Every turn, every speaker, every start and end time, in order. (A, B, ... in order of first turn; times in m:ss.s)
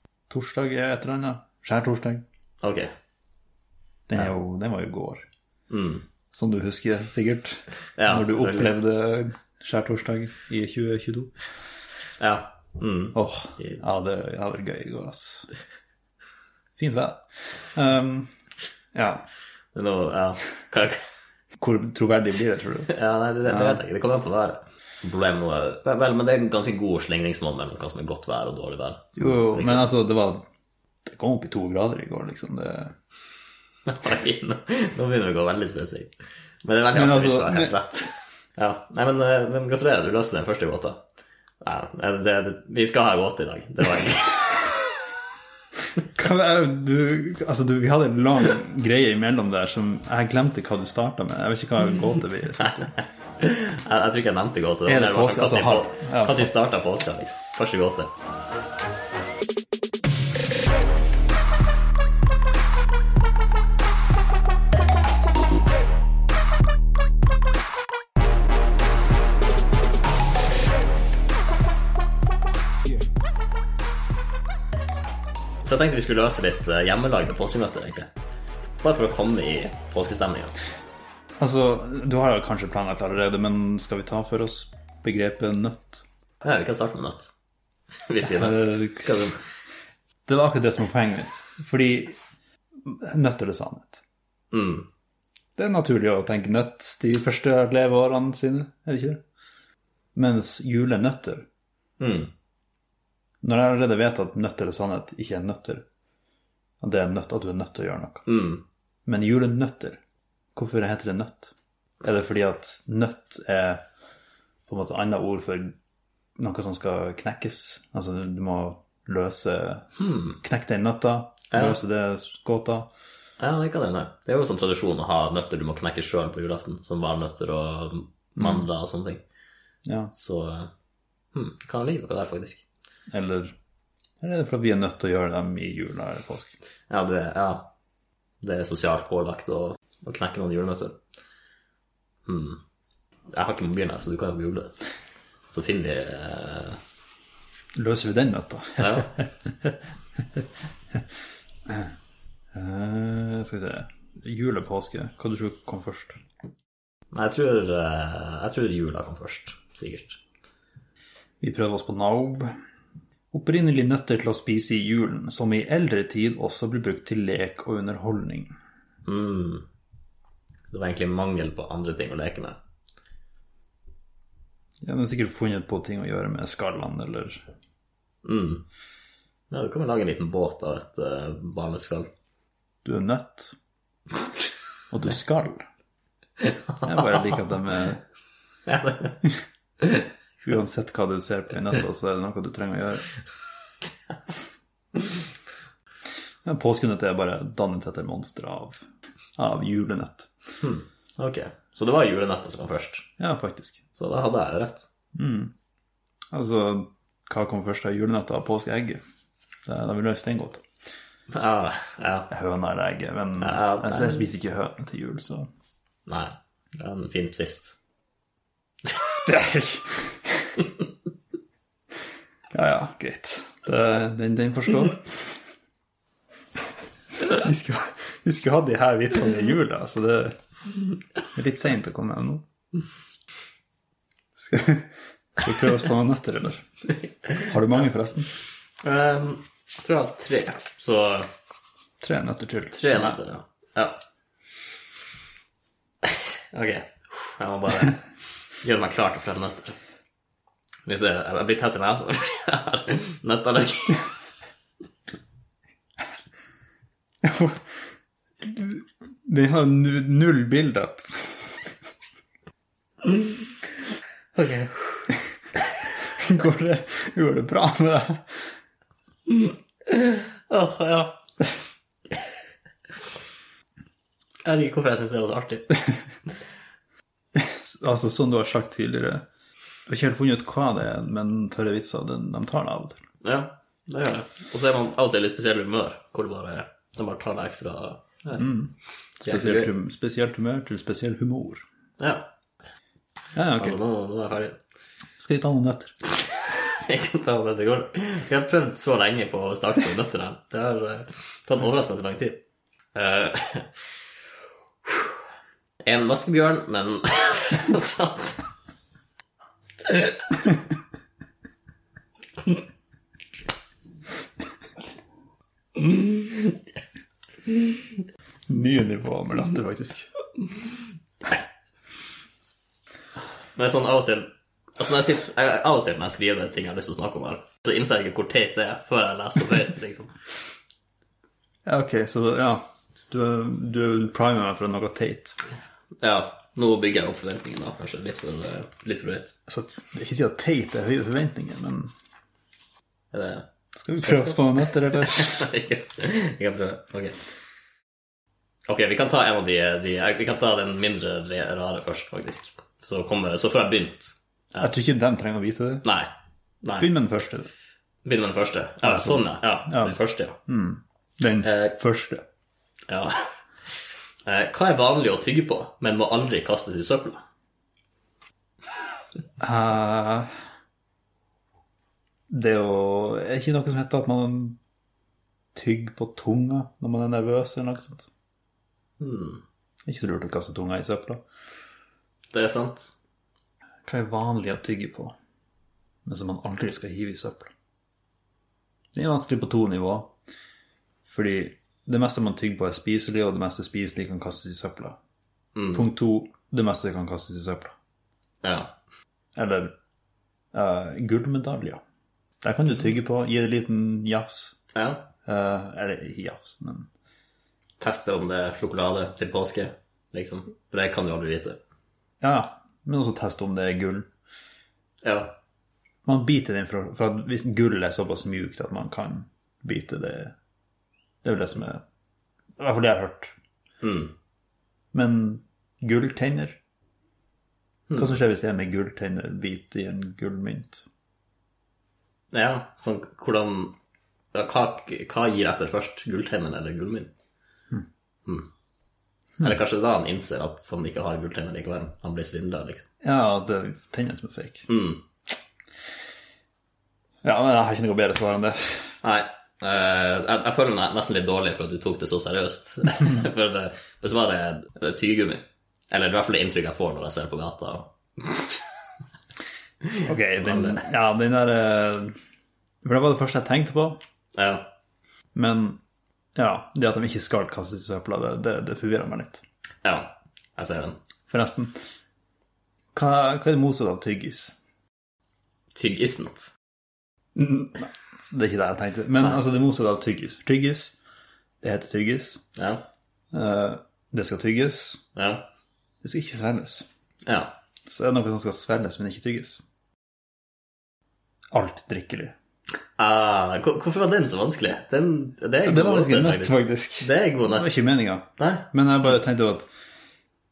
0:00.3-0:02.2 A
0:02.6-0:02.9 B
0:04.1-0:05.2 A
0:05.7-0:06.1 B
0:06.3-0:11.3 A
0:08.0-0:08.7 B
0:12.2-0:13.8 B
0:13.1-0:15.5 A
0:16.8-0:18.3 A
0:18.9-0:19.2 A
0:19.7-0:21.0 B
0:21.6-0:22.9 A
0:22.9-0:29.8 B
0:23.4-0:23.8 A
0:29.2-0:30.4 A
0:31.0-0:32.9 A
0:33.8-0:36.1 B
0:36.6-0:41.0 B
0:36.9-0:37.8 A
0:41.6-0:44.8 B
0:46.0-0:52.9 A
0:52.6-0:58.1 B
0:54.8-0:56.5 A
1:15.6-1:18.1 B
1:18.8-1:20.5 B
1:21.4-1:26.0 A
1:26.4-1:27.3 B
1:28.1-1:29.4 B
1:28.2-1:29.2 A
1:30.2-1:32.2 A
1:32.8-1:34.0 A
1:34.5-1:34.9 B
1:35.6-1:39.2 A
1:40.1-1:41.4 A
1:42.0-1:42.3 B
1:43.4-1:45.8 A
1:46.8-1:48.2 A
1:48.3-1:48.6 B
1:49.0-1:50.0 A
1:50.5-1:53.8 A
1:54.7-1:55.8 A
1:56.4-1:59.9 A
2:00.0-2:00.4 B
2:00.4-2:02.9 A
2:01.5-2:01.8 B
2:03.4-2:09.2 B
2:08.4-2:08.6 A
2:09.8-2:10.1 A
2:10.1-2:10.7 B
2:11.3-2:12.6 B
2:13.1-2:13.5 A
2:14.2-2:16.5 A
2:16.9-2:17.7 B
2:18.4-2:21.0 B
2:22.2-2:22.6 B
2:23.3-2:24.7 B
2:25.5-2:26.8 B
2:27.7-2:29.7 A
2:28.8-2:29.1 B
2:32.5-2:36.2 A
2:37.1-2:40.2 B
2:41.4-2:42.5 A
2:43.3-2:48.5 A
2:49.0-2:49.6 B
2:50.7-2:52.6 B
2:54.8-2:57.4 A
2:58.2-2:58.6 B
2:59.5-3:02.1 B
3:02.8-3:03.5 A
3:04.9-3:05.6 A
3:06.4-3:07.4 B
3:06.8-3:08.0 A
3:08.6-3:09.2 B
3:09.8-3:10.1 B
3:10.4-3:13.1 A
3:16.4-3:18.8 A
3:19.4-3:20.3 A
3:20.6-3:23.1 B
3:23.2-3:23.8 A
3:23.9-3:24.9 B
3:25.1-3:25.5 A
3:26.3-3:29.0 A
3:29.6-3:30.6 A
3:31.3-3:32.3 B
3:32.3-3:35.5 A
3:33.4-3:34.3 B
3:36.1-3:37.8 B
3:39.2-3:40.6 A
3:42.5-3:45.4 A
3:47.2-3:50.4 A
3:51.3-3:52.4 A
3:54.4-3:56.6 A
3:57.3-3:58.3 A
3:58.8-4:01.3 B
4:02.0-4:03.2 A
4:02.7-4:04.0 B
4:06.0-4:08.0 B
4:08.6-4:09.8 B
4:10.8-4:14.0 B
4:17.2-4:17.6 A
4:18.4-4:21.7 A
4:23.0-4:23.4 B
4:24.3-4:25.1 B
4:26.0-4:28.5 A
4:29.3-4:31.2 B
4:34.4-4:35.8 B
4:37.3-4:39.2 A
4:39.9-4:43.0 A
4:43.2-4:48.5 B
4:48.4-4:51.6 A
4:49.2-4:49.7 B
4:52.0-4:52.3 B
4:53.3-4:53.8 A
4:53.6-4:54.6 B
4:55.2-4:55.9 A
4:56.4-5:02.4 B
5:02.9-5:03.8 B
5:05.8-5:08.4 B
5:09.9-5:10.2 B
5:15.8-5:16.6 B
5:18.5-5:20.1 A
5:23.6-5:30.1 B
5:31.6-5:35.4 A
5:36.0-5:39.4 B
5:39.5-5:41.9 A
5:43.1-5:43.4 B
5:43.8-5:45.5 A
5:44.0-5:47.2 B
5:48.7-5:54.7 B
5:54.6-5:55.8 A
5:55.8-5:56.1 B
5:56.6-5:56.9 B
5:56.8-5:57.5 A
5:58.0-6:00.4 B
5:58.8-6:02.2 A
6:01.4-6:01.7 B
6:02.9-6:03.3 B
6:04.2-6:07.2 B
6:09.4-6:10.3 A
6:12.3-6:14.6 A
6:15.5-6:18.1 A
6:19.0-6:19.4 B
6:19.8-6:21.2 A
6:22.3-6:22.9 B
6:23.8-6:25.1 A
6:26.0-6:27.5 A
6:28.9-6:30.1 A
6:31.0-6:35.0 A
6:35.6-6:35.8 B
6:35.7-6:37.7 A
6:38.4-6:38.7 B
6:39.3-6:39.7 A
6:40.5-6:41.8 A
6:42.4-6:44.6 A
6:44.7-6:45.0 B
6:45.2-6:46.9 A
6:47.8-6:51.6 B
6:52.2-6:54.1 A
6:55.0-6:55.3 B
6:56.0-7:00.3 A
7:01.2-7:01.8 A
7:02.6-7:03.3 A
7:03.8-7:04.1 B
7:04.9-7:06.6 A
7:07.9-7:08.2 B
7:08.0-7:10.8 A
7:12.3-7:13.8 B
7:14.3-7:17.1 B
7:19.4-7:22.9 B
7:23.0-7:24.7 A
7:24.7-7:25.0 B
7:27.2-7:28.9 A
7:29.0-7:38.5 B
7:39.9-7:40.8 B
7:40.0-7:42.2 A
7:42.8-7:44.0 A
7:44.3-7:44.7 B
7:45.3-7:45.8 A
7:46.4-7:49.4 A
7:49.8-7:51.0 B
7:51.3-7:51.7 A
7:52.9-7:54.5 A
7:55.7-7:56.5 B
7:57.3-8:01.0 A
8:01.6-8:02.4 A
8:02.6-8:02.8 B
8:03.3-8:05.0 A
8:05.1-8:05.4 B
8:06.0-8:06.8 A
8:07.2-8:07.5 B
8:07.8-8:09.6 A
8:11.5-8:12.3 A
8:13.0-8:17.7 B
8:15.6-8:19.7 A
8:18.4-8:18.7 B